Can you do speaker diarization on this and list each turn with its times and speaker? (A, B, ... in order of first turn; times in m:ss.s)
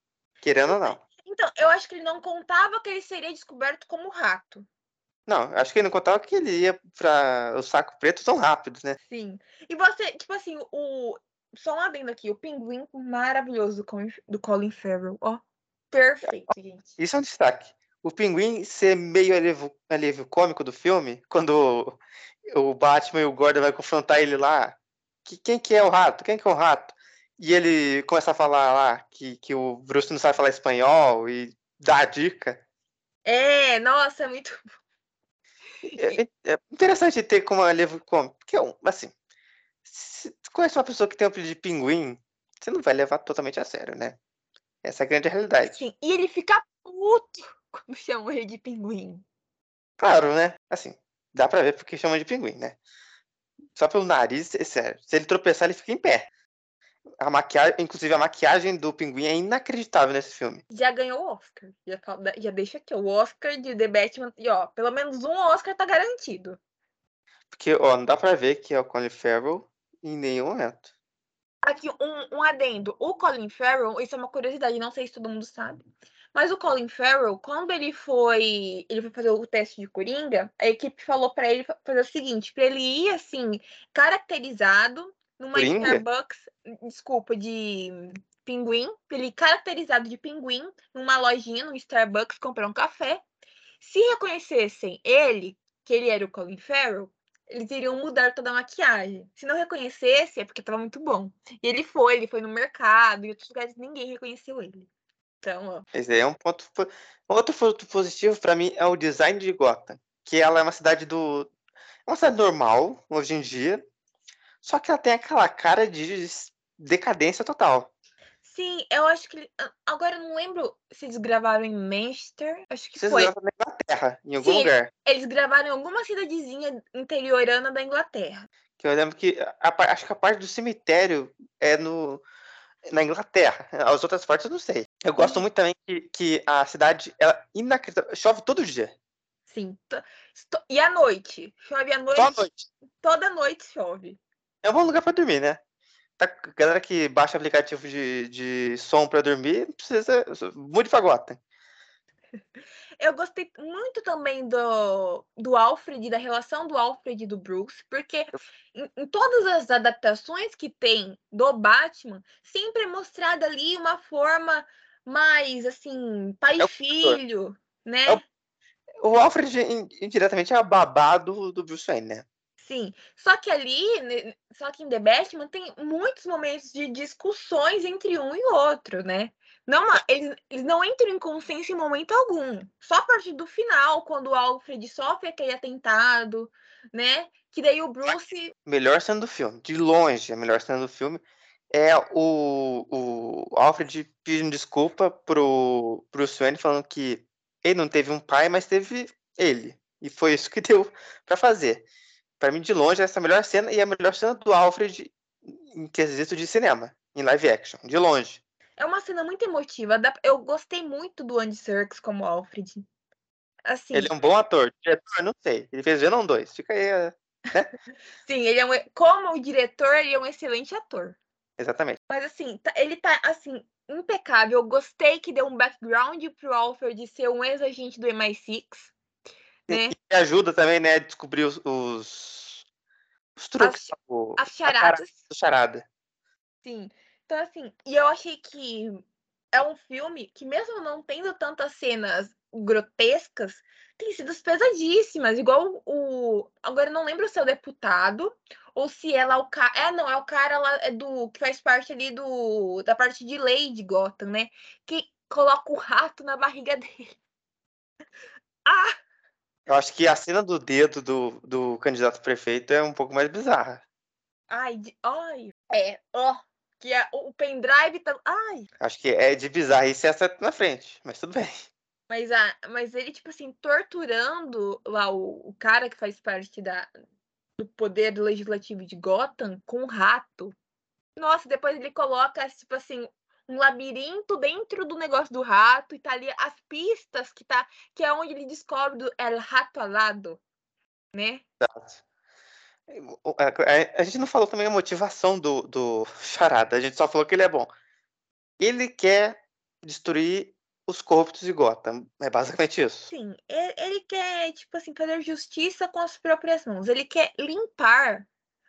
0:00.4-0:01.0 A
0:00.6-0:04.7 B
0:05.3-0:09.0 A
0:09.1-0:16.8 B
0:17.0-0:22.0 A
0:22.5-0:32.6 A
0:33.2-0:34.6 B
0:35.8-0:36.2 B
0:36.0-0:39.1 A
0:39.8-0:44.2 A
0:44.8-0:45.8 A
0:45.7-0:49.2 B
0:50.0-0:52.8 A
0:53.8-0:56.3 A
0:57.2-1:00.6 A
1:00.7-1:06.6 B
1:07.5-1:10.9 A
1:11.6-1:15.8 B
1:16.3-1:33.2 B
1:25.5-1:26.0 A
1:33.8-1:44.9 B
1:45.4-1:45.8 B
1:45.9-1:51.5 A
1:52.1-1:53.8 A
1:54.6-1:57.9 A
1:58.4-2:03.3 B
2:03.0-2:04.9 A
2:04.4-2:08.5 B
2:08.8-2:12.2 A
2:12.9-2:18.9 A
2:15.2-2:15.4 B
2:19.5-2:22.4 B
2:22.2-2:22.7 A
2:23.0-2:24.2 B
2:24.6-2:25.6 A
2:26.2-2:31.4 A
2:33.0-2:48.2 B
2:46.6-2:47.2 A
2:49.0-2:52.2 A
2:52.6-3:08.5 B
3:08.1-3:21.8 A
3:22.4-3:28.4 A
3:28.8-3:32.8 B
3:33.7-3:34.1 B
3:33.9-3:37.7 A
3:38.2-3:41.2 B
3:41.6-3:42.0 A
3:42.1-3:48.9 B
3:49.7-3:49.9 B
3:49.7-3:52.6 A
3:53.4-3:55.8 A
3:53.6-3:55.2 B
3:56.6-3:59.0 B
3:59.5-4:17.2 B
4:18.6-4:18.9 B
4:19.7-4:23.8 A
4:24.5-4:28.7 B
4:28.8-4:31.7 A
4:32.1-4:36.9 B
4:37.6-4:40.5 B
4:41.2-4:50.4 B
4:51.1-4:51.4 B
4:51.6-4:52.0 A
4:52.9-4:57.7 A
4:58.6-5:03.1 A
5:03.1-5:08.3 B